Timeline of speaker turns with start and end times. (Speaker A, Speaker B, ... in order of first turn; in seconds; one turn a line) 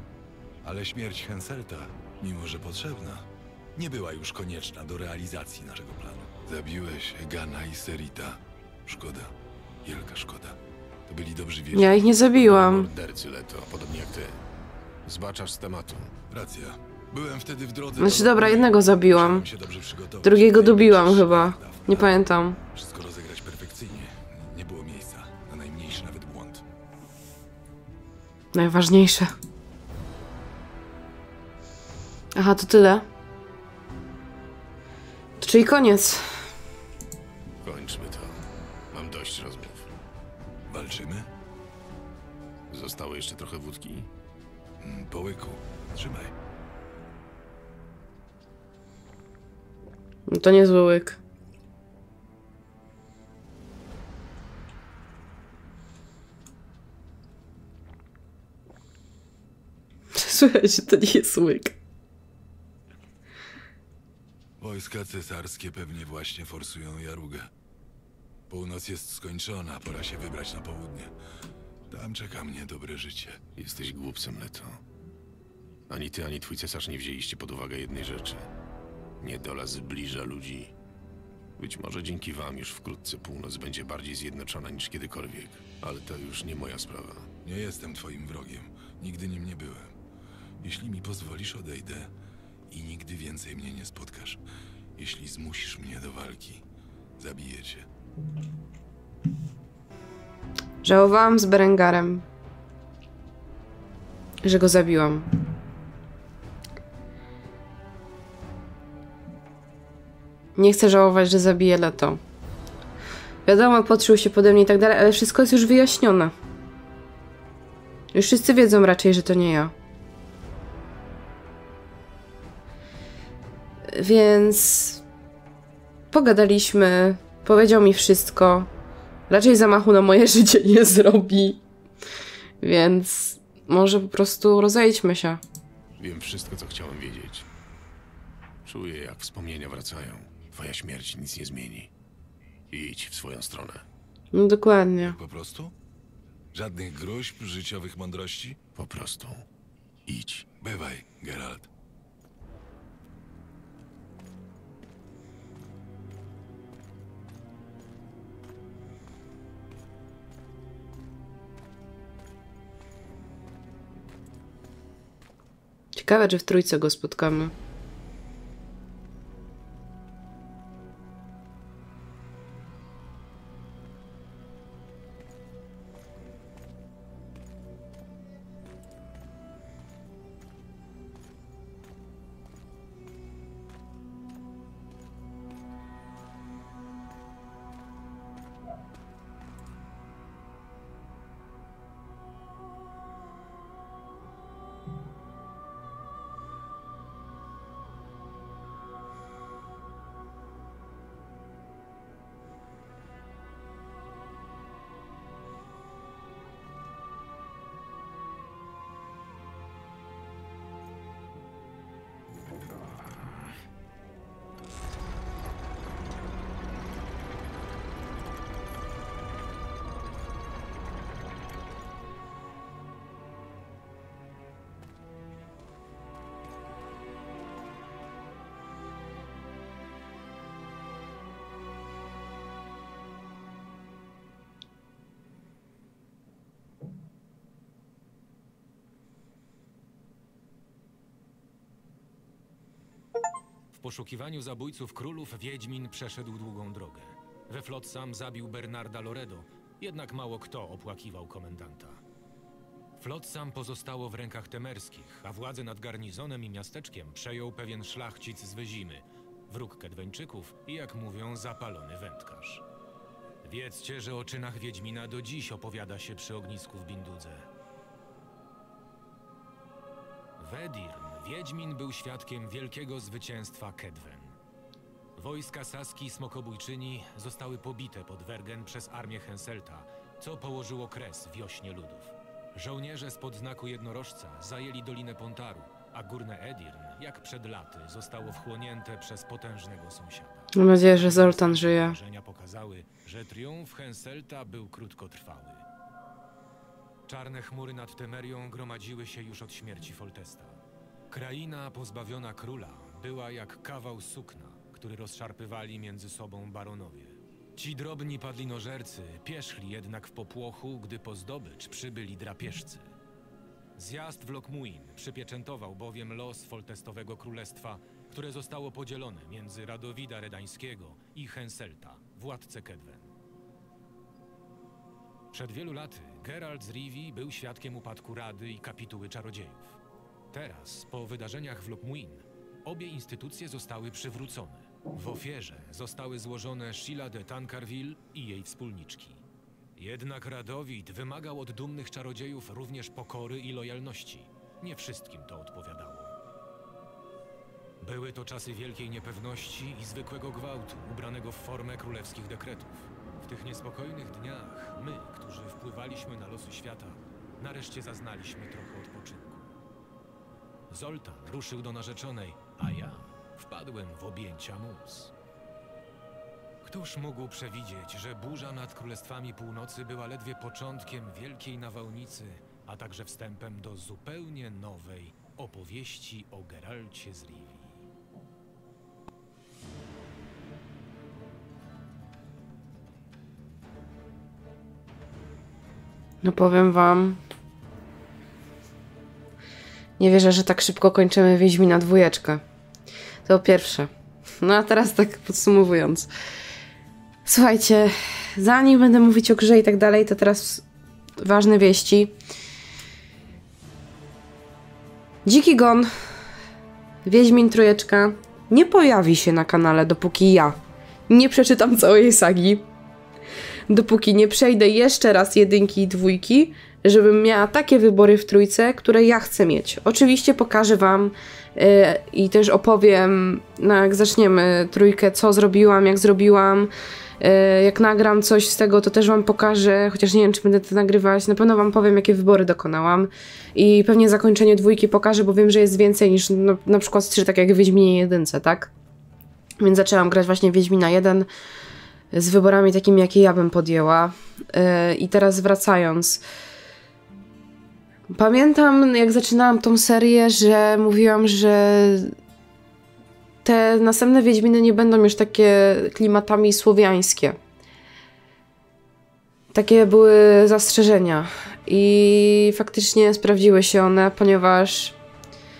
Speaker A: 0.6-9.3
Speaker A: 9.8-12.0
Speaker B: 11.7-12.9
Speaker C: 12.3-14.4
Speaker C: 15.1-16.1
Speaker A: 16.3-22.2
Speaker B: 18.0-19.4
Speaker B: 20.2-22.6
Speaker A: 22.7-26.6
Speaker B: 28.5-29.3
Speaker B: 32.4-33.1
Speaker B: 35.4-36.5
Speaker C: 37.6-38.4
Speaker C: 38.9-39.9
Speaker A: 40.7-41.3
Speaker C: 42.7-44.1
Speaker A: 44.8-46.3
Speaker B: 50.3-51.2
Speaker B: 60.1-61.8
Speaker A: 64.6-67.5
Speaker A: 68.5-71.1
Speaker A: 71.9-73.4
Speaker C: 73.6-74.8
Speaker C: 75.9-78.5
Speaker C: 79.2-80.8
Speaker C: 81.6-87.3
Speaker A: 87.4-89.9
Speaker A: 90.6-92.1
Speaker A: 92.7-94.4
Speaker A: 95.0-96.6
Speaker A: 97.2-97.9
Speaker B: 100.8-102.3
Speaker B: 104.4-105.3
Speaker B: 110.6-112.2
Speaker B: 113.5-116.3
Speaker B: 118.1-119.7
Speaker B: 123.9-125.0
Speaker B: 126.1-128.7
Speaker B: 129.3-131.6
Speaker B: 132.6-135.4
Speaker C: 136.0-137.5
Speaker C: 138.7-141.9
Speaker C: 142.7-143.9
Speaker B: 144.3-145.2
Speaker A: 145.0-145.7
Speaker A: 146.5-148.6
Speaker C: 148.8-149.5
Speaker C: 150.1-150.5
Speaker A: 150.6-151.7
Speaker B: 165.9-167.5
Speaker D: 243.7-252.0
Speaker D: 253.0-262.6
Speaker D: 263.4-267.5
Speaker D: 270.4-274.4
Speaker D: 275.2-295.7
Speaker B: 290.6-292.0
Speaker D: 297.1-312.9
Speaker D: 313.8-323.1
Speaker D: 325.3-329.8
Speaker D: 330.3-339.2
Speaker D: 339.8-346.1
Speaker D: 347.8-359.5
Speaker D: 360.7-365.1
Speaker D: 366.6-377.9
Speaker B: 386.2-387.2
Speaker B: 390.0-392.4
Speaker B: 393.2-393.9
Speaker B: 394.4-396.1
Speaker B: 397.3-400.6
Speaker B: 401.2-402.1
Speaker B: 405.2-405.9
Speaker B: 407.1-410.6
Speaker B: 411.1-412.7
Speaker B: 413.7-438.7
Speaker B: 439.6-441.3
Speaker B: 442.1-446.2
Speaker B: 448.1-452.1
Speaker B: 453.4-457.4
Speaker B: 459.5-465.0